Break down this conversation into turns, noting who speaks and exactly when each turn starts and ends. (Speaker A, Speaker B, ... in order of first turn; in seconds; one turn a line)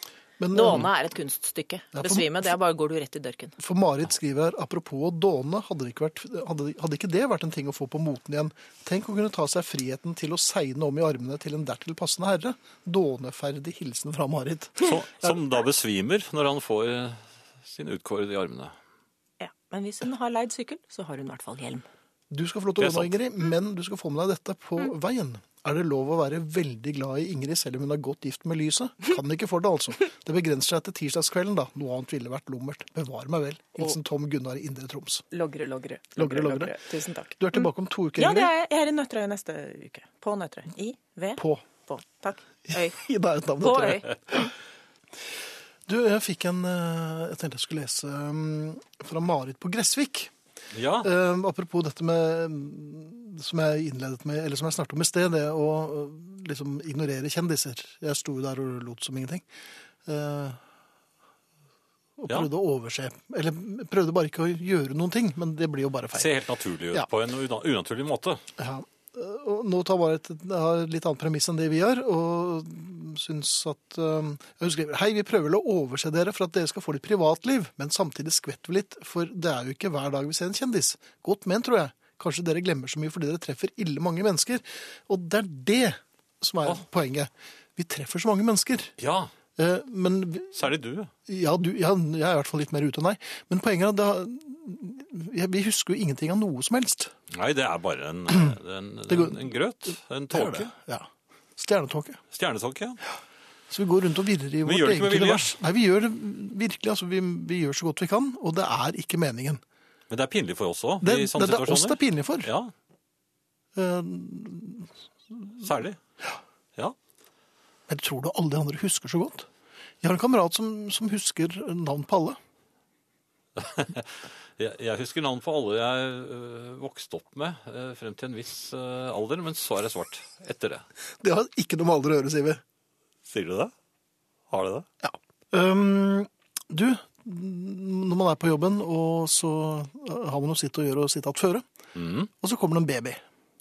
Speaker A: 0.4-0.9
Speaker B: 0.5-3.6
Speaker A: 1.9-2.4
Speaker A: 3.6-15.3
Speaker C: 14.8-18.7
Speaker B: 19.4-21.8
Speaker A: 22.3-35.2
Speaker C: 22.8-23.1
Speaker B: 35.3-43.0
Speaker A: 36.2-36.8
Speaker A: 37.4-38.5
Speaker A: 41.4-41.6
Speaker A: 42.7-44.5
Speaker B: 43.6-44.1
Speaker A: 45.9-50.3
Speaker C: 50.7-51.1
Speaker A: 51.0-59.5
Speaker A: 60.0-60.6
Speaker A: 62.2-66.3
Speaker C: 66.1-68.4
Speaker A: 68.6-88.9
Speaker C: 89.0-89.3
Speaker A: 89.5-90.6
Speaker C: 90.5-91.1
Speaker A: 91.3-97.1
Speaker C: 97.3-100.7
Speaker A: 99.1-99.5
Speaker A: 100.3-102.2
Speaker C: 102.3-103.0
Speaker A: 103.7-109.6
Speaker C: 104.6-105.5
Speaker C: 110.1-112.7
Speaker A: 111.0-112.5
Speaker A: 113.7-115.7
Speaker C: 115.6-116.0
Speaker A: 117.9-119.5
Speaker A: 120.0-122.4
Speaker C: 123.5-130.8
Speaker A: 131.2-132.6
Speaker C: 133.3-133.7
Speaker C: 134.5-134.8
Speaker A: 135.0-141.7
Speaker C: 141.9-142.3
Speaker A: 142.4-143.2